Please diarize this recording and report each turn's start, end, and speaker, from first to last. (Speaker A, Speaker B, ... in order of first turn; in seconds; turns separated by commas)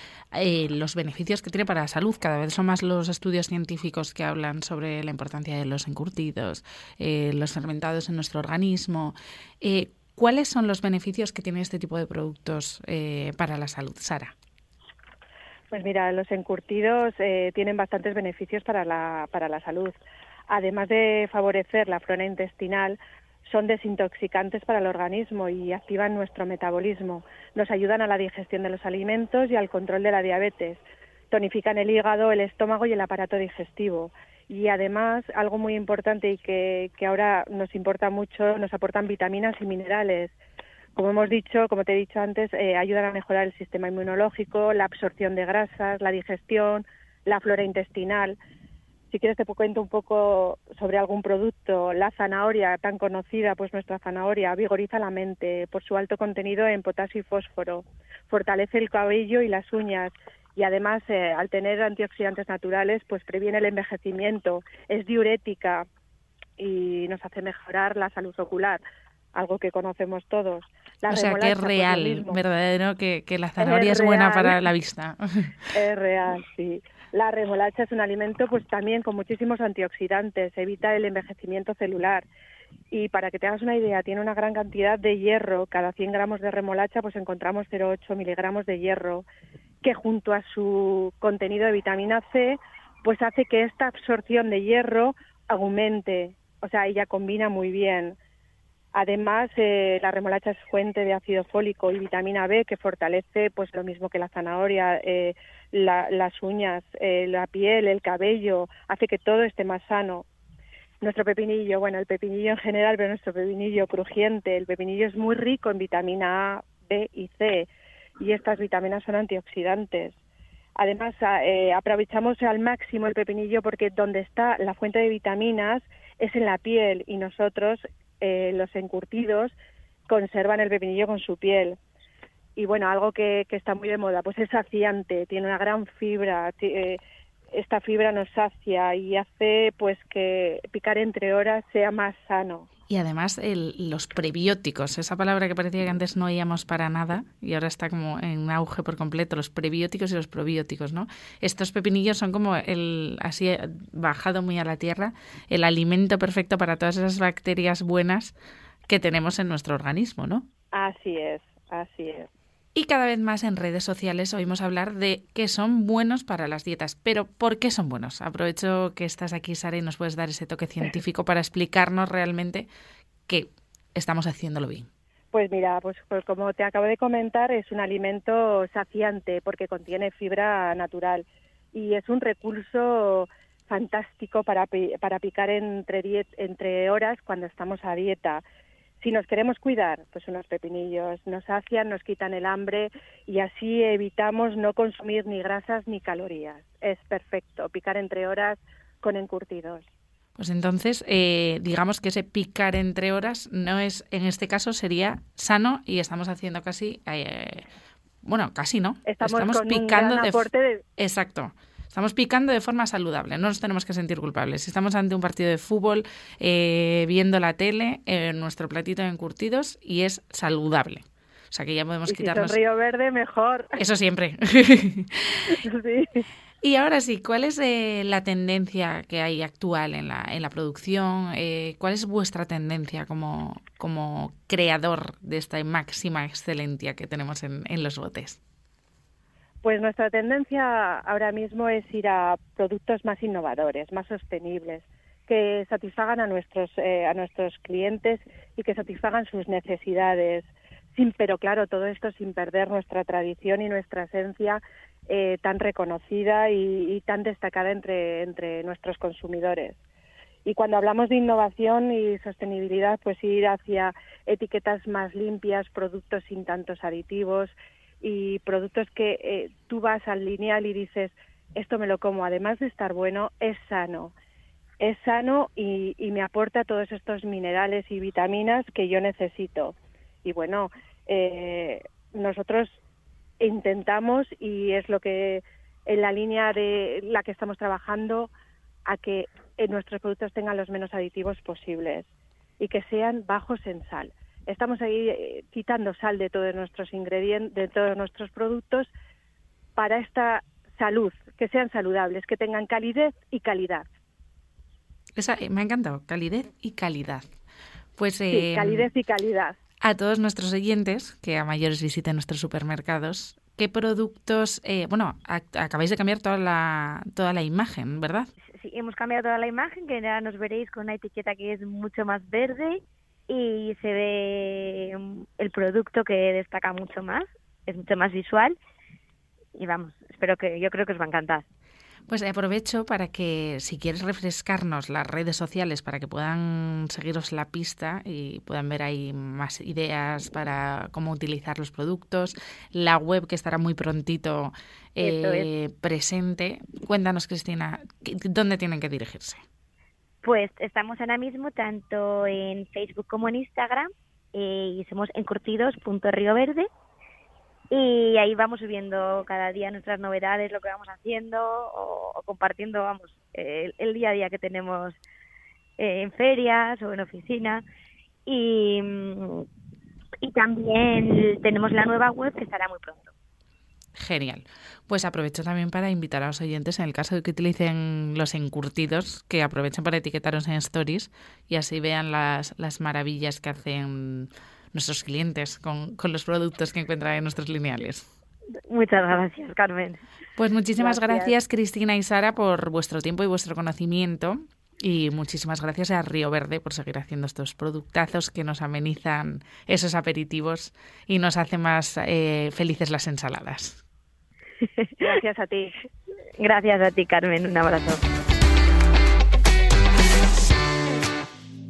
Speaker A: 0.3-14.3, Speaker B: 15.7-20.0, Speaker B: 20.5-40.4, Speaker B: 41.0-48.4, Speaker B: 49.1-65.9, Speaker B: 66.6-68.8, Speaker B: 69.3-72.4, Speaker A: 71.1-75.7, Speaker B: 73.6-74.6, Speaker B: 75.7-82.3, Speaker B: 82.9-89.3, Speaker B: 89.8-98.2, Speaker B: 98.9-110.3, Speaker B: 111.0-120.2, Speaker B: 120.8-129.6, Speaker B: 130.1-131.8, Speaker B: 132.6-137.0, Speaker B: 137.5-142.7, Speaker A: 142.9-158.3, Speaker A: 158.9-160.5, Speaker B: 160.7-162.3, Speaker A: 162.8-172.7, Speaker A: 173.3-174.9, Speaker B: 175.3-188.4, Speaker B: 189.0-199.9, Speaker A: 200.4-207.7, Speaker A: 208.2-222.6, Speaker B: 209.1-210.8, Speaker B: 222.1-223.8, Speaker A: 223.8-225.6, Speaker B: 225.5-226.3, Speaker A: 226.6-238.4, Speaker B: 239.6-259.8, Speaker B: 260.4-274.1, Speaker B: 274.8-282.8, Speaker B: 283.4-288.3, Speaker B: 288.9-292.1, Speaker B: 292.6-298.9, Speaker B: 299.8-303.9, Speaker A: 305.2-307.2, Speaker A: 308.0-308.9, Speaker B: 308.3-309.6, Speaker A: 309.8-318.3, Speaker C: 318.6-328.6, Speaker C: 329.6-331.5, Speaker A: 332.1-349.4, Speaker C: 345.0-345.5, Speaker C: 350.2-356.7, Speaker C: 357.7-365.0, Speaker C: 365.8-367.6, Speaker C: 368.3-369.4, Speaker C: 370.2-373.1, Speaker A: 374.0-388.1, Speaker C: 388.7-390.0, Speaker A: 390.4-403.8, Speaker C: 390.8-391.3, Speaker C: 404.7-405.1, Speaker B: 405.0-405.8, Speaker C: 406.4-408.0